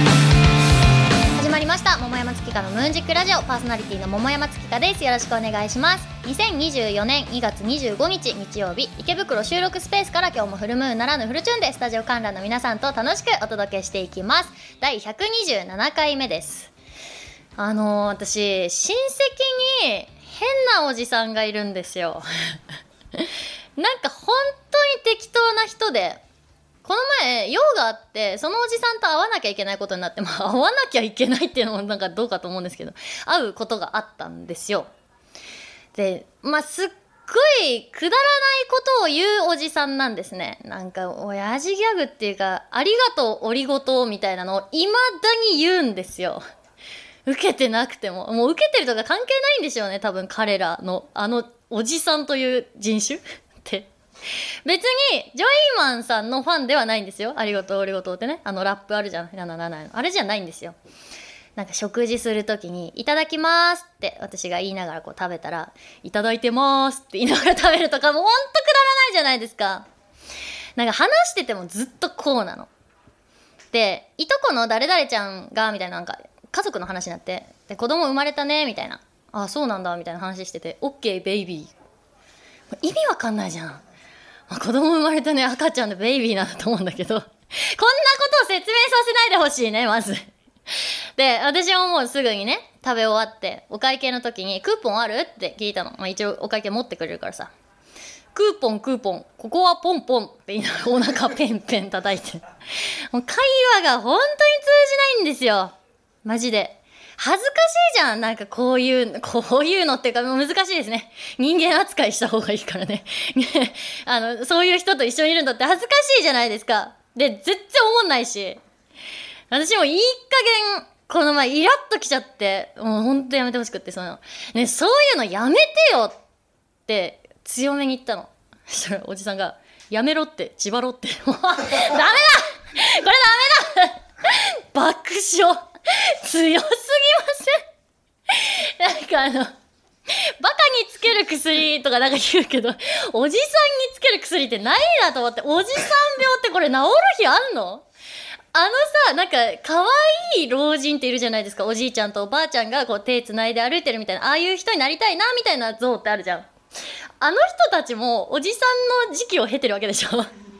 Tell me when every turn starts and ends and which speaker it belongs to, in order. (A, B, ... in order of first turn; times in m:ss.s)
0:01.3-0:16.7 A
0:17.6-0:22.6 A
0:23.2-0:26.2 A
0:26.8-0:34.9 A
0:36.0-0:46.4 A
0:47.2-0:53.9 A
0:54.6-1:00.8 A
1:01.6-1:09.9 A
1:10.8-1:12.7 A
1:13.7-1:21.7 A
1:22.7-1:23.8 A
1:24.5-1:37.5 A
1:38.3-1:58.6 A
1:59.5-2:06.2 A
2:06.9-2:17.6 A
2:18.3-2:19.5 A
2:20.1-2:27.8 A
2:28.5-2:36.5 A
2:37.2-2:40.3 A